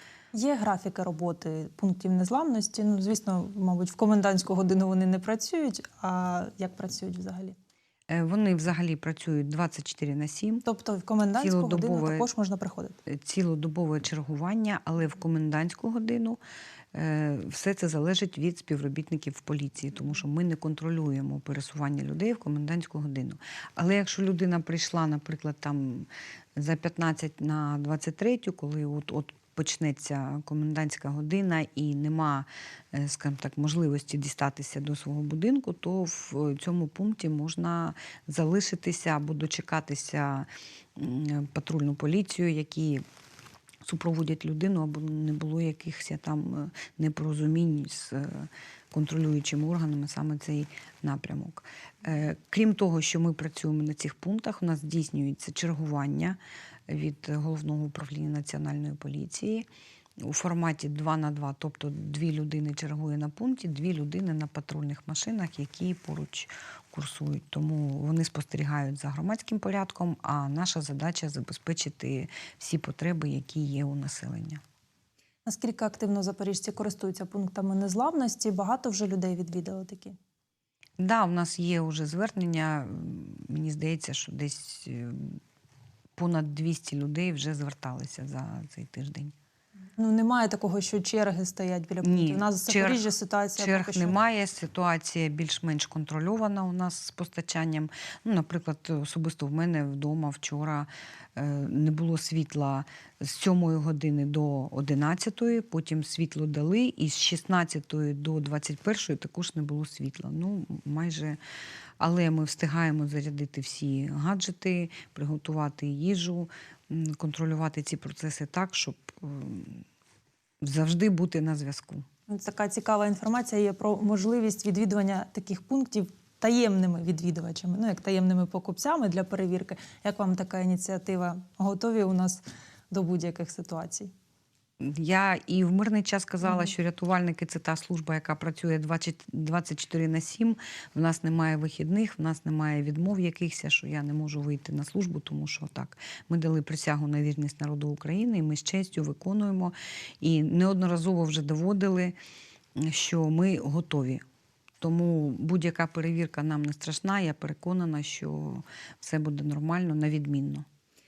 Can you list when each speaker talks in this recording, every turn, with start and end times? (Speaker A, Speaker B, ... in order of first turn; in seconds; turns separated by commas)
Speaker A: 0.3-7.6, Speaker B: 8.1-10.6, Speaker A: 10.7-13.0, Speaker B: 11.4-12.3, Speaker B: 13.1-16.4, Speaker B: 16.9-43.0, Speaker B: 43.8-59.7, Speaker B: 60.2-74.6, Speaker A: 75.5-80.2, Speaker B: 81.0-85.4, Speaker B: 86.2-89.3, Speaker A: 90.0-94.2, Speaker B: 92.0-93.0, Speaker B: 93.6-111.4, Speaker B: 112.0-119.8, Speaker B: 120.6-122.0, Speaker A: 122.3-134.1, Speaker B: 134.8-152.2, Speaker B: 152.8-154.2, Speaker B: 154.8-160.7